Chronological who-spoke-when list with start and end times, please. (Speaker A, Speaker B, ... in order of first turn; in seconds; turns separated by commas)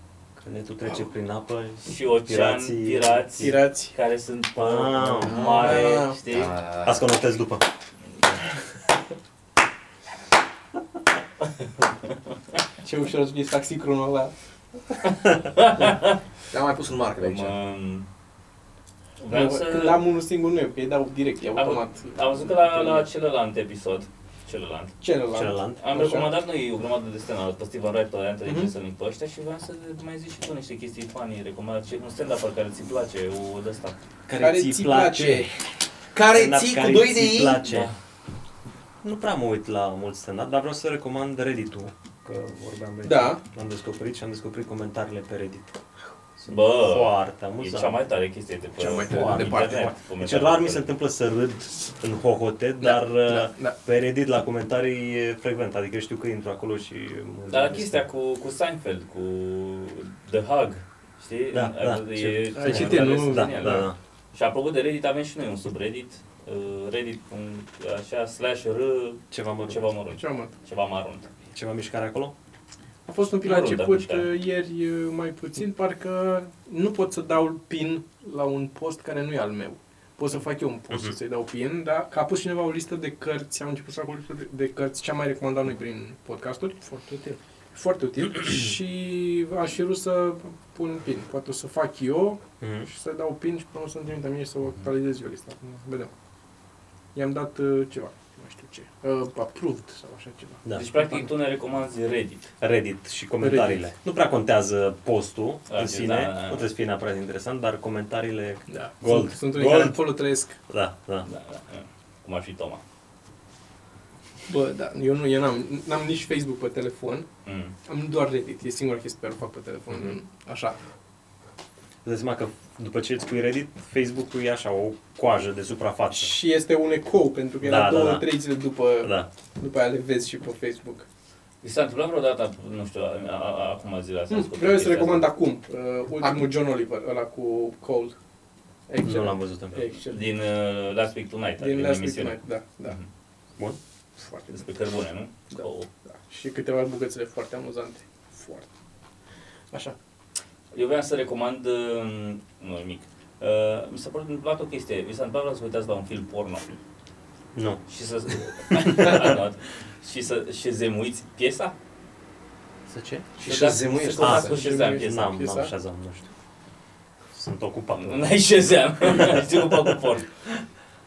Speaker A: 0.4-3.6, Speaker B: 1.8-6.5, Speaker C: 3.4-3.9, Speaker A: 4.5-6.0, Speaker D: 5.2-7.0, Speaker C: 5.5-6.2, Speaker A: 6.8-7.6, Speaker C: 12.8-14.3, Speaker B: 15.5-16.2, Speaker D: 16.5-17.6, Speaker B: 17.2-18.1, Speaker B: 19.2-20.0, Speaker C: 19.3-23.0, Speaker B: 21.6-24.9, Speaker C: 25.0-26.3, Speaker A: 25.3-25.8, Speaker B: 25.8-34.0, Speaker C: 28.4-28.7, Speaker A: 34.2-35.6, Speaker C: 34.4-35.5, Speaker D: 36.1-37.6, Speaker A: 36.3-37.9, Speaker B: 37.6-38.0, Speaker A: 39.0-45.8, Speaker C: 43.0-43.4, Speaker A: 46.4-48.0, Speaker B: 46.5-50.8, Speaker C: 48.8-49.9, Speaker A: 49.1-58.0, Speaker C: 52.8-53.8, Speaker B: 57.5-71.3, Speaker A: 61.5-64.0, Speaker C: 62.5-63.9, Speaker A: 69.3-69.8, Speaker C: 70.1-70.5, Speaker A: 71.5-72.3, Speaker C: 73.0-96.1, Speaker B: 73.4-74.3, Speaker A: 92.6-92.9, Speaker C: 97.1-101.2, Speaker A: 100.6-100.9, Speaker B: 100.7-102.5, Speaker A: 102.6-110.1, Speaker C: 103.4-103.9, Speaker B: 105.7-106.7, Speaker C: 108.7-110.6, Speaker A: 110.7-111.3, Speaker B: 111.2-112.8, Speaker C: 114.5-117.2, Speaker B: 117.4-117.7, Speaker C: 117.9-120.8, Speaker A: 122.0-126.3, Speaker C: 126.1-131.0, Speaker A: 127.6-128.4, Speaker A: 129.0-129.3, Speaker B: 131.6-135.3, Speaker C: 134.3-138.1, Speaker D: 136.2-136.5, Speaker C: 138.9-140.3, Speaker A: 139.0-139.8, Speaker B: 140.1-143.1, Speaker C: 141.6-143.0, Speaker C: 144.2-144.6, Speaker B: 144.5-145.9, Speaker C: 145.5-148.7, Speaker B: 150.7-156.8, Speaker A: 157.5-157.8, Speaker B: 157.9-161.7, Speaker A: 158.7-159.3, Speaker A: 162.9-163.3, Speaker D: 163.4-164.5, Speaker B: 163.4-165.3, Speaker C: 164.2-165.7, Speaker A: 164.2-166.2, Speaker A: 167.3-170.6, Speaker B: 167.9-170.3